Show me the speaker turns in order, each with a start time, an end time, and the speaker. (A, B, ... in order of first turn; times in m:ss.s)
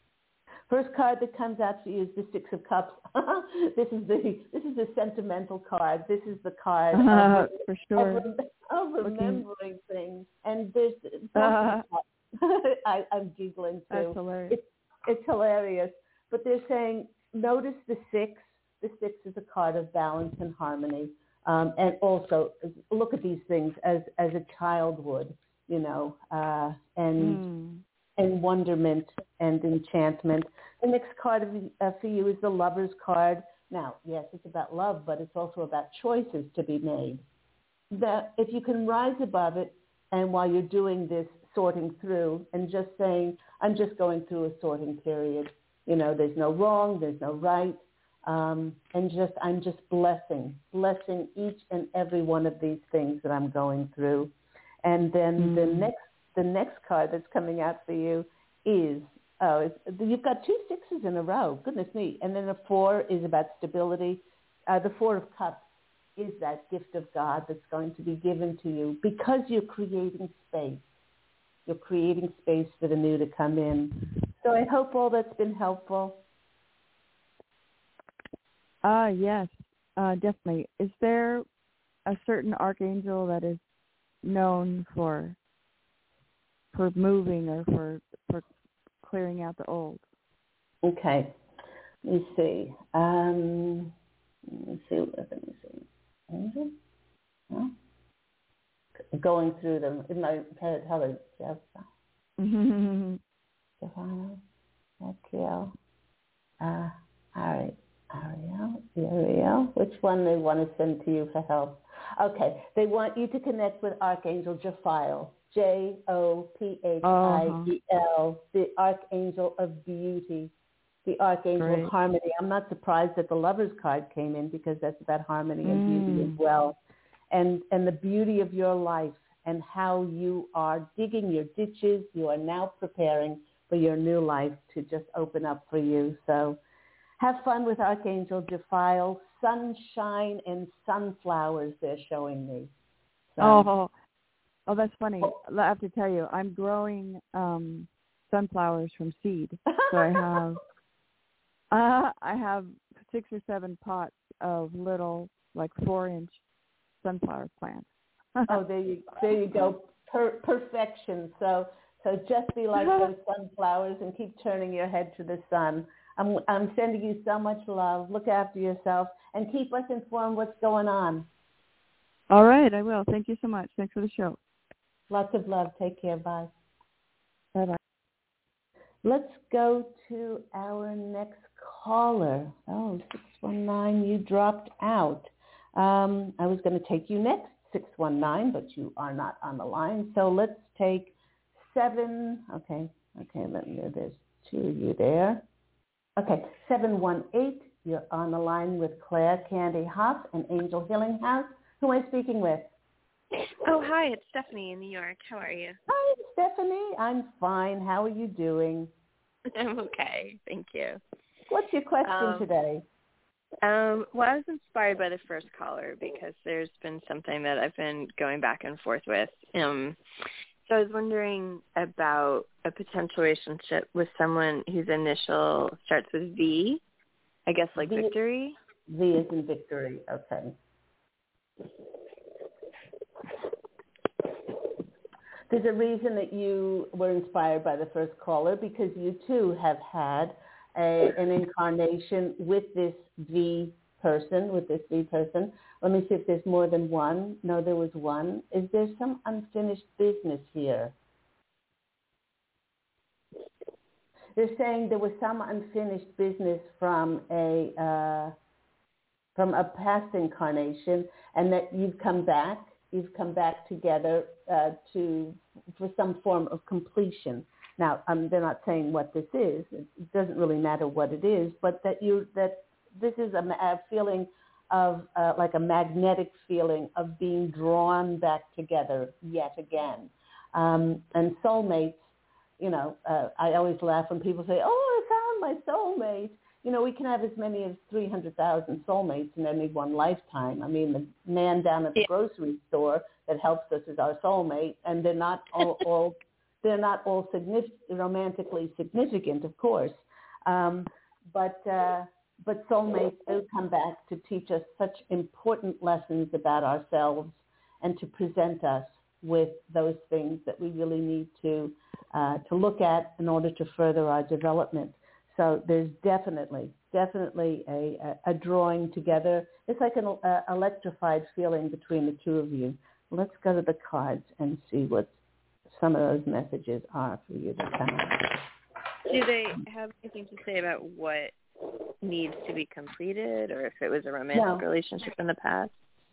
0:00.7-0:27.4 A
0:06.9-0:08.2 B
0:09.0-0:09.4 B
0:11.3-0:11.8 B
0:13.9-0:14.6 B
0:27.2-0:27.8 B
0:28.2-0:37.2 A
0:37.9-0:54.3 A
0:54.8-1:05.6 A
0:55.4-0:55.9 B
1:06.2-1:10.8 A
1:11.6-1:16.2 A
1:18.8-1:21.4 B
1:22.0-1:23.6 B
1:24.2-1:25.4 B
1:26.7-1:28.4 B
1:29.0-1:30.0 B
1:30.8-1:31.3 A
1:32.0-1:33.9 A
1:34.5-1:36.7 A
1:39.1-1:41.9 A
1:42.4-1:43.2 B
1:43.8-1:44.4 A
1:45.0-1:45.7 A
1:46.6-2:00.5 A
1:57.0-1:57.7 B
2:01.0-2:06.8 A
2:01.6-2:01.9 B
2:05.6-2:06.4 B
2:07.3-2:16.6 A
2:17.2-2:22.7 A
2:23.3-2:23.7 A
2:23.4-2:23.9 B
2:24.7-2:30.6 B
2:29.7-2:30.3 A
2:31.7-2:36.4 B
2:37.0-2:38.6 B
2:38.5-2:51.3 A
2:42.8-2:43.1 B
2:52.3-2:54.4 B
2:55.1-2:56.5 A
2:59.0-3:15.4 A
3:16.2-3:22.7 A
3:23.4-3:25.8 C
3:25.9-3:28.9 A
3:29.5-3:31.0 C
3:31.5-3:32.8 A
3:32.0-3:32.5 C
3:33.6-3:40.0 C
3:40.6-3:46.8 C
3:47.5-3:48.6 C
3:47.8-3:48.1 A
3:48.9-3:50.5 A
3:55.5-4:10.9 A
4:14.4-4:18.3 A
4:19.4-5:25.1 A
5:25.7-5:28.4 A
5:29.1-5:31.3 C
5:32.0-5:35.7 C
5:34.3-5:34.6 A